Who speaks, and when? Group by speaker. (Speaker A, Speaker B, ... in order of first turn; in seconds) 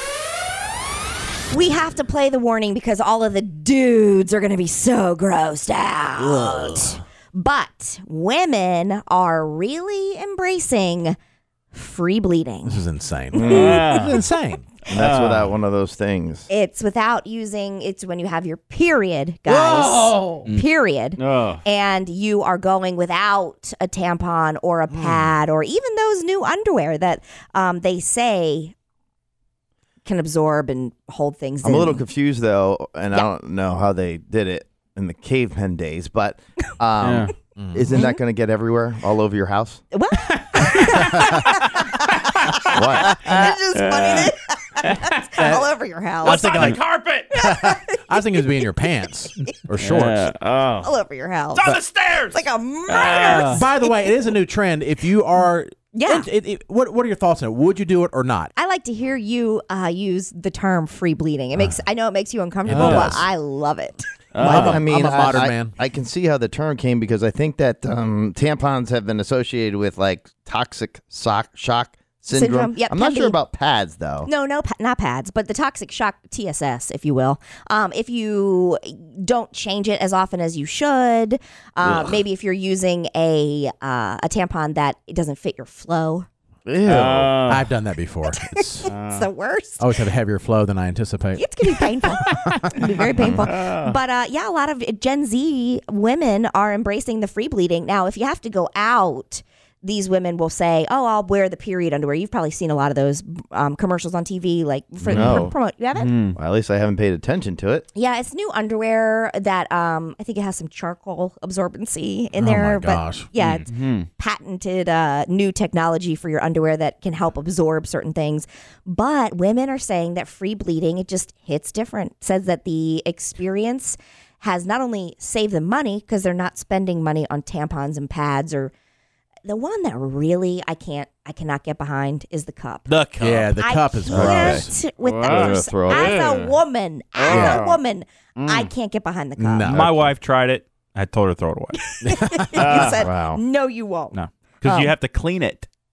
Speaker A: 1.5-11.2, 11.7-12.8, 13.3-14.0, 16.5-28.7, 30.0-32.0, 37.9-38.2, 39.9-46.8, 47.3-48.6, 50.8-51.8, 52.3-54.1, 55.9-56.3, 58.5-64.0, 72.3-73.4, 74.2-86.3, 88.3-89.8, 91.3-106.1, 107.9-128.7, 129.5-132.9, 133.6-139.7, 141.8-144.9
Speaker B: 12.6-14.8, 19.5-20.4, 24.9-25.3, 37.5-37.9, 45.4-45.6, 46.3-50.3, 53.4-58.5, 62.6-63.3, 64.4-65.7, 87.4-88.9, 89.8-91.4, 92.3-93.3, 112.3-113.3, 133.2-134.7, 137.2-137.6, 139.4-140.1, 142.0-142.7
Speaker C: 13.3-13.8, 14.9-16.5, 31.6-39.8, 42.7-43.2, 64.4-74.3, 81.8-82.2, 86.7-87.4, 105.0-105.5, 106.3-107.9, 134.1-134.7, 135.2-136.2, 143.0-143.4
Speaker D: 13.5-14.2, 14.9-15.5, 21.2-21.6, 37.0-37.3, 43.2-44.3, 44.8-45.2, 46.2-47.2, 49.8-50.9, 52.9-53.6, 62.7-63.1, 64.3-64.7, 86.9-87.6, 88.8-89.3, 93.3-94.0, 106.0-106.4, 113.7-114.1, 135.0-136.5, 137.2-137.8, 138.4-138.7, 142.6-143.0
Speaker E: 51.6-52.1, 132.9-133.5, 139.7-141.8, 144.1-145.7